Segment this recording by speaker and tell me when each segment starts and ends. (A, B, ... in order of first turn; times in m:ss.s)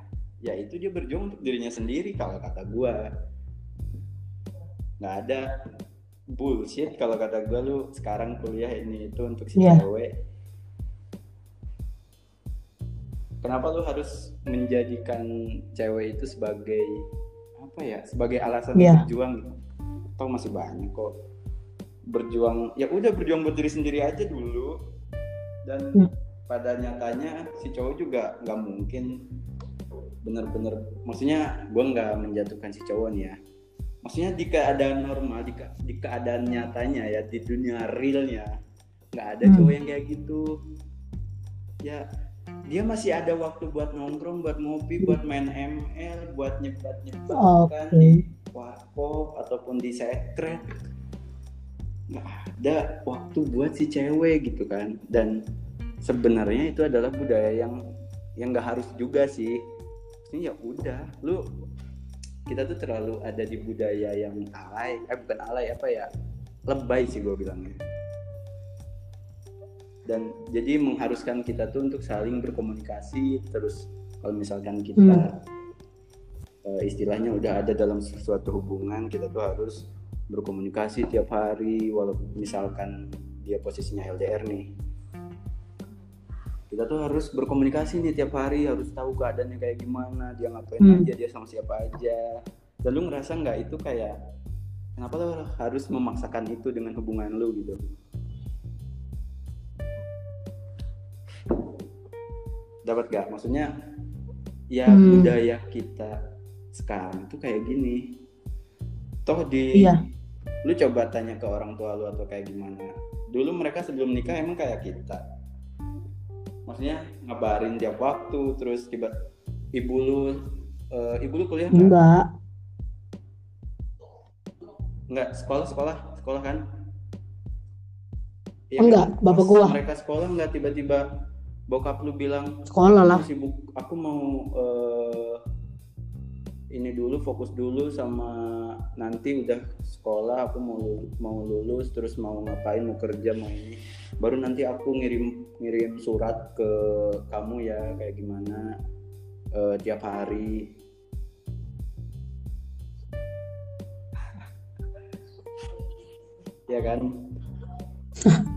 0:00.4-0:03.0 A
0:05.0-0:05.5 A
0:06.3-0:10.1 A
0:09.6-0:09.8 B
0:13.4-0:17.0 A
0:17.6-0:19.5 A
0:18.8-0:19.0 B
0:20.2-0:21.1 A
0:22.1-0:24.7 A
0:25.7-0:29.1 A
0:30.2-0:33.4 A
0:34.0-0:38.5 A
0:39.1-0:40.4 A
0:39.4-0:39.7 B
0:42.7-0:50.6 A
0:47.3-0:48.2 B
0:52.1-0:55.4 A
0:56.0-0:57.8 A
0:58.4-0:59.6 A
1:00.2-1:01.4 A
1:02.5-1:06.1 A
1:06.7-1:07.8 A
1:10.1-1:15.3 A
1:15.0-1:15.2 B
1:16.6-1:24.7 A
1:26.7-1:32.2 A
1:30.8-1:31.0 B
1:32.8-1:34.2 A
1:35.0-1:37.8 A
1:42.8-1:43.7 A
1:44.7-1:46.1 A
1:44.9-1:45.3 B
1:46.7-1:48.1 A
1:49.2-1:49.9 A
1:50.6-1:55.2 A
1:56.7-1:59.1 A
1:59.7-2:00.4 A
2:00.9-2:01.9 A
2:01.7-2:02.3 B
2:05.1-2:06.6 A
2:08.7-2:11.0 A
2:08.8-2:09.8 B
2:11.7-2:15.4 A
2:12.7-2:13.2 B
2:16.7-2:28.7 A
2:29.5-2:30.7 A
2:36.7-2:37.1 A